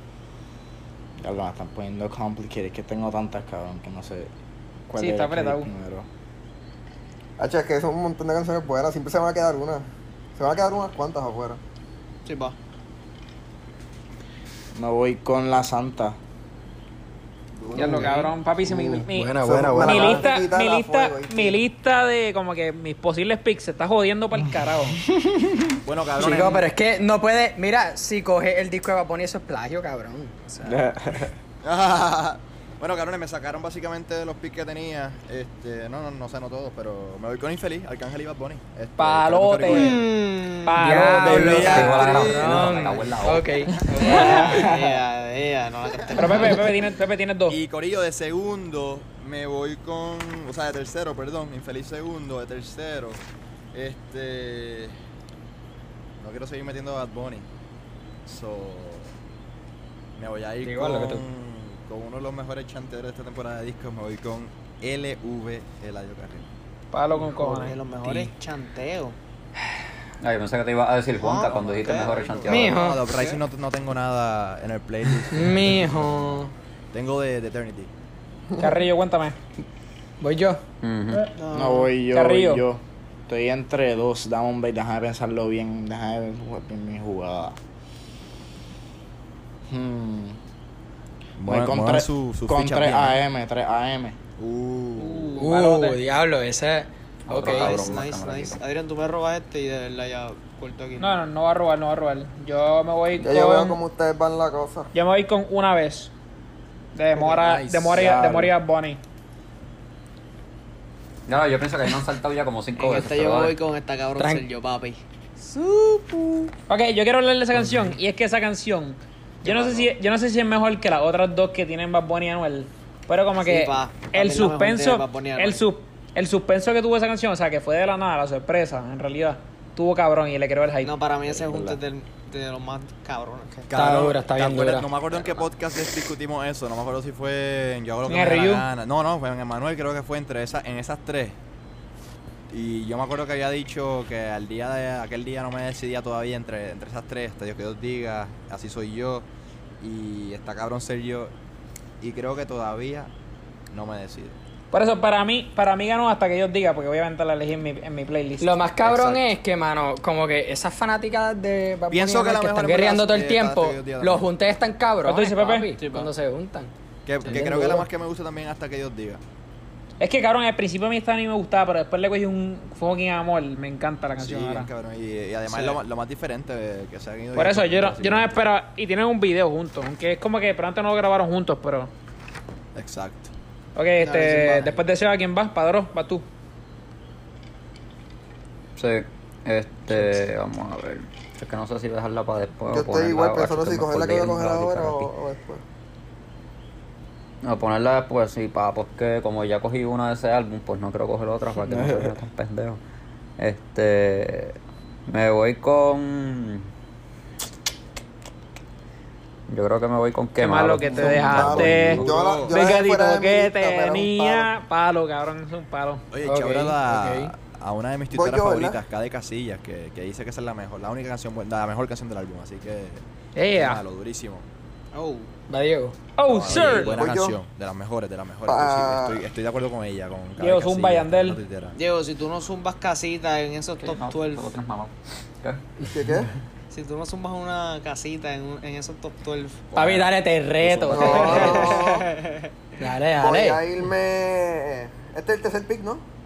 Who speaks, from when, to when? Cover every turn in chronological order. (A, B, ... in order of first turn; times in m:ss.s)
0:01.2-0:04.3 A
0:04.9-0:06.1 A
0:04.9-0:05.7 B
0:07.4-0:11.6 C
0:12.2-0:12.6 D
0:14.7-0:16.2 A
0:17.6-0:17.9 E
0:17.7-0:18.2 C
0:17.7-0:25.0 B
0:18.7-0:20.3 F
0:19.4-0:21.6 C
0:25.8-0:26.7 E
0:26.2-0:30.8 F
0:30.6-0:31.3 A
0:31.6-0:40.0 E
0:39.0-0:40.0 B
0:39.7-0:40.7 D
0:40.6-0:42.0 B
0:40.6-0:44.7 F
0:41.2-0:43.6 G
0:41.2-0:42.9 E
0:43.8-0:46.7 D
0:44.2-0:44.9 A
0:46.1-0:47.6 B
0:47.5-0:53.2 E
0:53.7-0:54.9 E
0:56.2-0:57.4 E
0:58.2-0:59.1 E
1:00.2-1:06.5 E
1:00.6-1:01.2 F
1:06.9-1:07.8 B
1:07.1-1:09.2 D
1:10.2-1:12.8 G
1:11.1-1:13.4 D
1:12.2-1:17.9 E
1:12.5-1:13.0 F
1:15.3-1:16.5 F
1:18.6-1:19.4 B
1:20.2-1:20.6 F
1:20.8-1:21.3 G
1:21.3-1:21.9 D
1:21.5-1:27.6 A
1:22.1-1:22.6 B
1:29.7-1:30.4 A
1:31.4-1:33.2 E
1:31.4-1:34.2 A
1:34.4-1:35.4 E
1:35.0-1:35.8 D
1:35.4-1:37.9 F
1:35.4-1:36.0 B
1:37.3-1:38.6 G
1:37.4-1:41.2 D
1:41.0-1:43.8 B
1:43.2-1:44.9 C
1:44.9-1:46.1 B
1:46.9-1:49.0 B
1:47.2-1:47.9 F
1:47.9-1:48.5 A
1:51.3-1:53.6 G
1:52.8-1:55.0 D
1:54.2-1:54.4 F
1:55.5-1:56.5 D
1:56.7-2:11.0 B
1:59.4-1:59.8 E
1:59.5-1:59.8 D
2:03.4-2:05.6 D
2:10.8-2:13.7 D
2:11.3-2:11.8 A
2:13.7-2:21.4 E
2:13.7-2:14.9 F
2:15.1-2:15.4 D
2:18.1-2:18.6 B
2:22.5-2:29.2 E
2:29.8-2:31.3 E
2:32.0-2:33.1 E
2:33.7-2:34.4 E
2:34.7-2:38.6 B
2:38.4-2:46.7 F
2:38.8-2:39.2 E
2:41.9-2:44.3 E
2:45.0-2:45.7 B
2:45.8-2:46.1 D
2:47.0-2:49.2 E
2:47.2-2:47.8 F
2:50.0-2:54.7 B
2:54.2-2:58.4 E
2:55.5-2:55.8 D
2:57.3-3:01.9 B
3:02.7-3:03.3 E
3:03.8-3:06.2 B
3:04.0-3:04.8 D
3:08.8-3:15.1 G
3:12.7-3:15.6 C
3:17.4-3:22.8 G
3:21.6-3:22.2 A
3:23.4-3:24.6 G
3:25.1-3:26.7 G
3:29.5-3:32.1 G
3:30.4-3:36.0 B
3:30.8-3:34.5 C
3:31.3-3:32.6 E
3:36.1-3:44.4 E
3:36.2-3:37.3 F
3:38.1-3:38.8 C
3:43.4-3:43.8 B
3:44.9-3:45.3 D
3:45.5-3:46.0 F
3:46.2-3:47.0 B
3:46.2-3:51.8 E
3:46.9-3:47.4 C
3:48.4-3:49.2 C
3:50.4-3:51.4 B
3:51.7-3:54.5 D
3:53.8-3:55.6 G
3:55.9-3:56.3 C
3:56.7-3:59.7 D
3:59.7-4:01.8 E
3:59.7-4:01.8 F
4:00.9-4:02.1 C
4:01.0-4:02.5 D
4:02.8-4:03.6 F
4:03.2-4:06.0 C